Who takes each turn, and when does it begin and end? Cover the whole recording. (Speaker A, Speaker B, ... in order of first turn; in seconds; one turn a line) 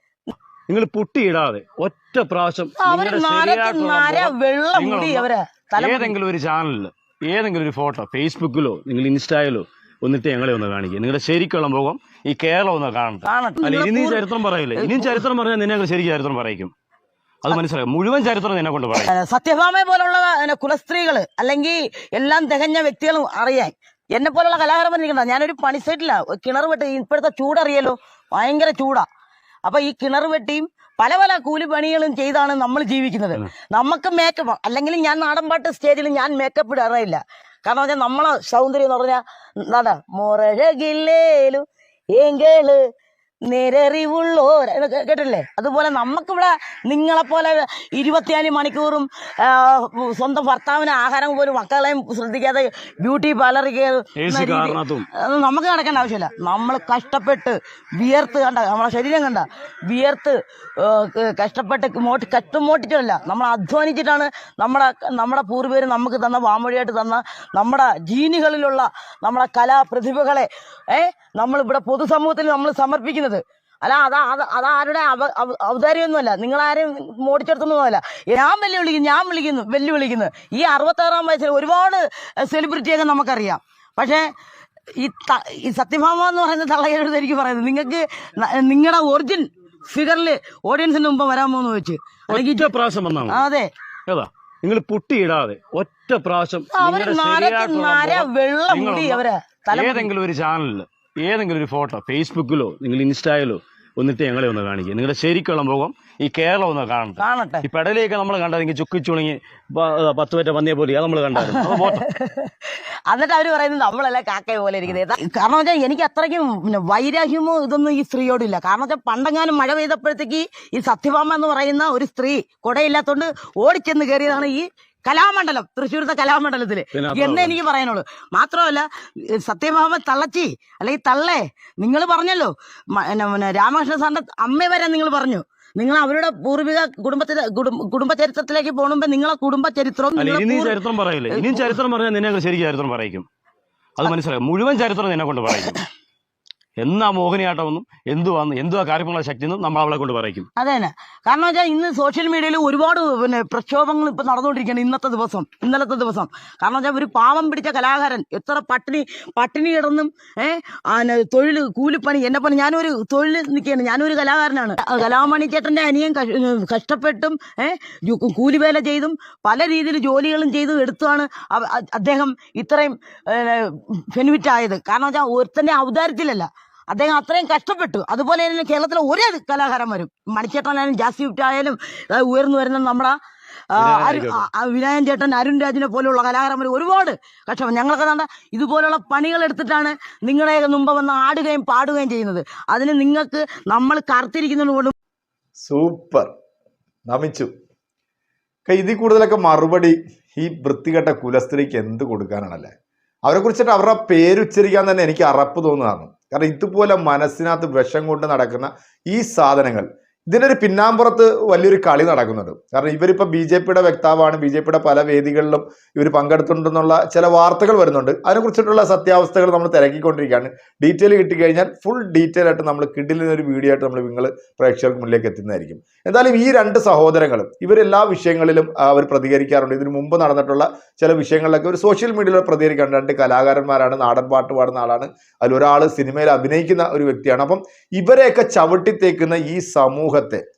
Speaker A: 0.7-16.7
Speaker B: 2.8-6.2
Speaker B: 13.2-15.2
Speaker A: 17.4-19.1
Speaker B: 19.0-29.1
Speaker B: 29.6-41.6
Speaker B: 42.2-42.8
Speaker B: 43.5-84.3
Speaker A: 54.2-55.1
Speaker B: 85.0-92.7
Speaker A: 92.3-93.4
Speaker B: 93.3-93.7
Speaker A: 94.1-112.0
Speaker B: 96.7-100.1
Speaker B: 107.2-107.7
Speaker B: 111.4-112.5
Speaker B: 113.1-140.8
Speaker A: 126.9-127.6
Speaker A: 140.2-143.3
Speaker B: 141.3-141.8
Speaker A: 144.0-145.8
Speaker A: 146.8-150.5
Speaker B: 150.6-183.2
Speaker B: 183.7-194.9
Speaker A: 183.8-184.5
Speaker C: 195.6-196.3
Speaker C: 197.1-197.5
Speaker C: 198.7-202.7
Speaker C: 203.3-240.4